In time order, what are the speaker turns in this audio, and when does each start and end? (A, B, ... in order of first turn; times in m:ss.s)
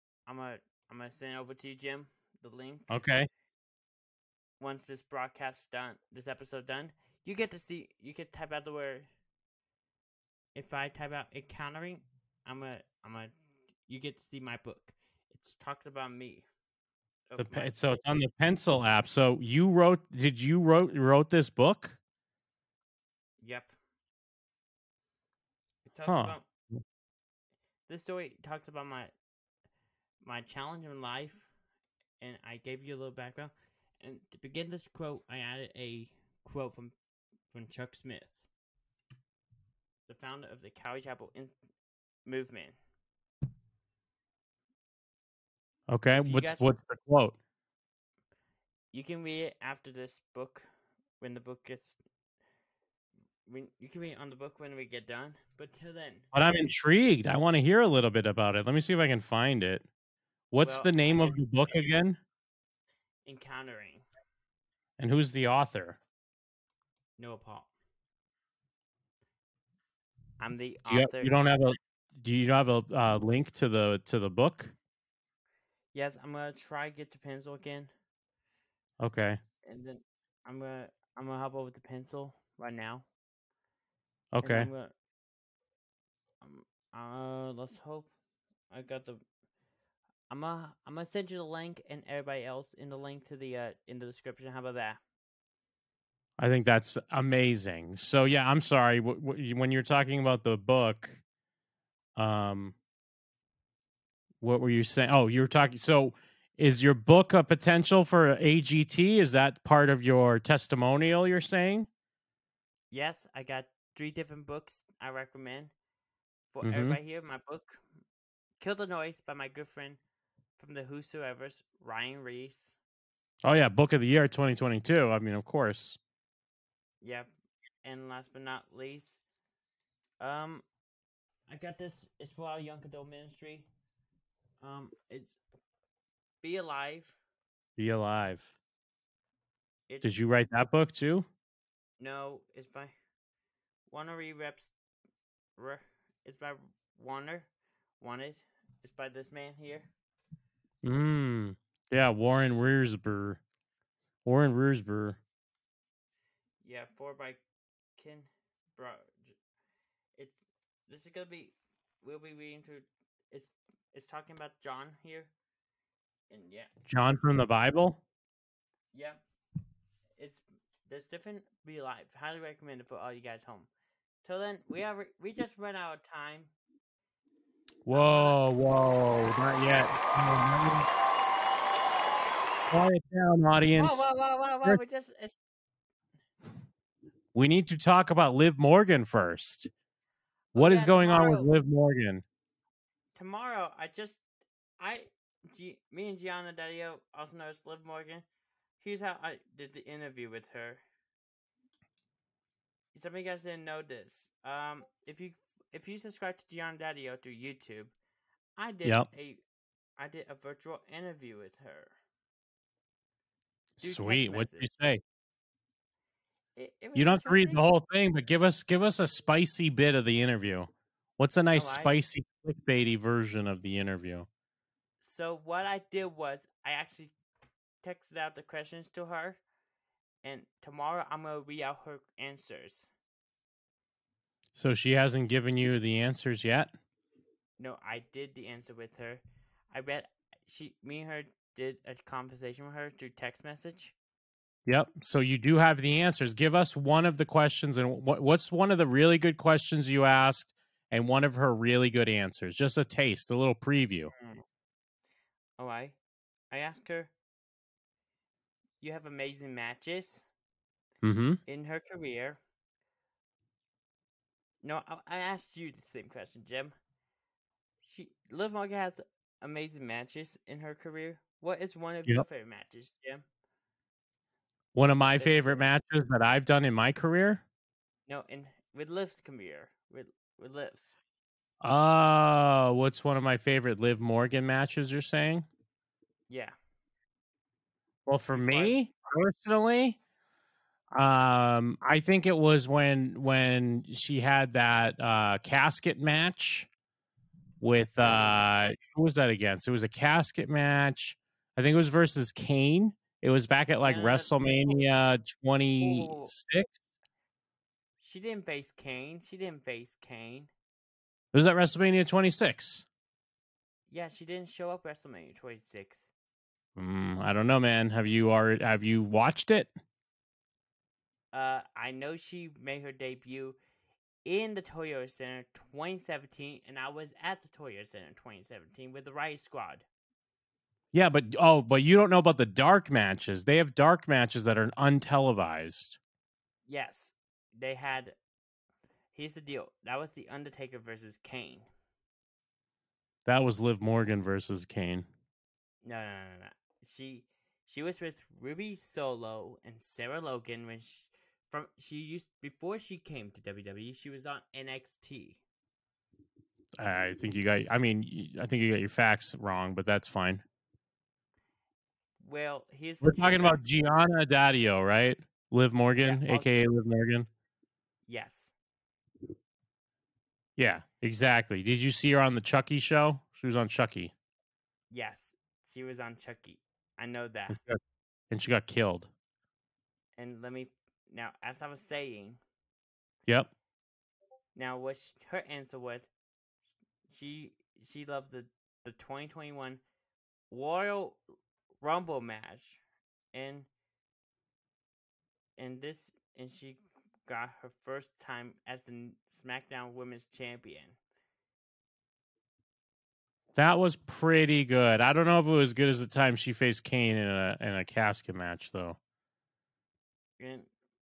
0:00.3-0:03.0 A
0:02.9-0:03.3 B
0:04.6-0:09.1 A
0:10.5-0:13.3 A
0:13.9-0:16.5 A
0:17.3-0:17.7 A
0:17.4-0:22.0 B
0:23.4-0:23.7 A
0:25.8-0:26.4 A
0:26.1-0:26.8 B
0:27.9-0:29.1 A
0:30.2-0:31.5 A
0:32.2-0:36.9 A
0:37.5-0:38.4 A
0:40.1-0:41.5 A
0:42.2-0:42.8 A
0:45.9-0:47.4 B
0:46.2-0:46.7 A
0:48.9-0:50.6 A
0:51.2-0:52.0 A
0:53.5-0:56.3 A
0:56.3-0:59.8 B
1:00.5-1:02.2 B
1:00.6-1:01.4 A
1:03.2-1:04.0 A
1:05.0-1:06.0 B
1:07.2-1:07.7 A
1:10.4-1:11.4 A
1:10.9-1:14.7 B
1:15.9-1:17.9 A
1:19.0-1:19.4 B
1:19.6-1:23.1 A
1:24.3-1:24.7 B
1:24.4-1:24.9 A
1:26.4-1:28.1 A
1:28.7-1:29.2 A
1:30.3-1:35.0 A
1:36.4-1:41.2 B
1:42.2-1:42.8 B
1:44.4-1:51.9 B
1:52.9-1:55.7 A
1:56.5-1:57.8 A
1:56.6-1:57.0 B
1:58.6-2:00.0 A
2:00.6-2:02.8 A
2:03.4-2:06.0 B
2:07.0-2:07.3 A
2:07.8-2:09.2 A
2:10.2-2:10.6 A
2:11.5-2:13.7 A
2:14.6-2:15.4 A
2:16.4-2:17.2 A
2:17.8-2:18.5 B
2:19.9-2:20.1 A
2:20.0-2:21.3 B
2:22.0-2:22.9 A
2:23.9-2:24.7 A
2:25.6-2:27.5 A
2:28.0-2:29.9 A
2:30.8-2:33.4 B
2:34.2-2:35.2 B
2:36.6-2:37.4 A
2:38.0-2:39.4 A
2:40.2-2:45.3 A
2:46.3-2:46.7 A
2:46.9-2:48.0 B
2:48.9-2:49.2 A
2:50.2-2:53.7 A
2:54.2-2:56.5 A
2:57.8-3:00.9 B
2:57.9-2:58.4 A
3:02.7-3:04.1 B
3:03.8-3:05.4 A
3:07.3-3:09.7 B
3:10.5-3:11.5 A
3:10.5-3:12.2 B
3:13.1-3:14.2 A
3:14.8-3:18.2 A
3:18.8-3:20.8 A
3:22.9-3:27.9 A
3:28.6-3:29.4 A
3:30.0-3:31.9 A
3:33.8-3:35.0 B
3:33.8-3:34.7 A
3:36.6-3:37.7 A
3:36.9-3:44.3 B
3:41.5-3:42.0 A
3:45.0-3:47.1 A
3:47.8-3:49.4 A
3:50.2-3:52.9 A
3:54.5-3:56.7 B
3:57.6-4:03.9 A
4:04.7-4:14.1 B
4:14.1-4:14.4 A
4:15.6-4:16.0 A
4:16.5-4:17.1 A
4:18.8-4:20.3 A
4:21.0-4:21.4 B
4:21.4-4:22.4 A
4:24.6-4:26.7 A
4:27.8-4:33.2 A
4:34.7-4:37.4 B
4:35.2-4:35.7 A
4:38.1-4:41.0 A
4:41.6-4:45.5 B
4:46.3-4:46.5 A
4:48.0-4:50.0 B
4:48.3-4:48.8 A
4:50.9-4:56.7 B
4:57.6-5:06.8 B
5:03.8-5:04.8 A
5:05.8-5:06.3 A
5:08.0-5:10.5 A
5:11.3-5:12.8 B
5:13.9-5:16.1 A
5:16.8-5:19.7 B
5:21.3-5:23.6 A
5:24.2-5:29.8 A
5:30.9-5:36.0 B
5:36.7-5:38.2 A
5:39.1-5:41.7 A
5:43.2-5:45.1 B
5:45.8-5:55.4 A
5:56.8-6:00.4 B
6:02.2-6:03.6 A
6:03.0-6:07.3 B
6:06.0-6:06.5 A
6:08.1-6:08.5 A
6:10.6-6:14.1 B
6:14.9-6:17.6 A
6:17.5-6:17.8 B
6:18.3-6:19.1 B
6:20.2-6:22.4 A
6:24.5-6:26.1 A
6:27.1-6:29.8 A
6:30.5-6:31.2 A
6:31.8-6:32.8 A
6:33.3-6:33.7 A
6:35.6-6:41.0 A
6:43.5-6:49.0 B
6:50.4-6:50.7 A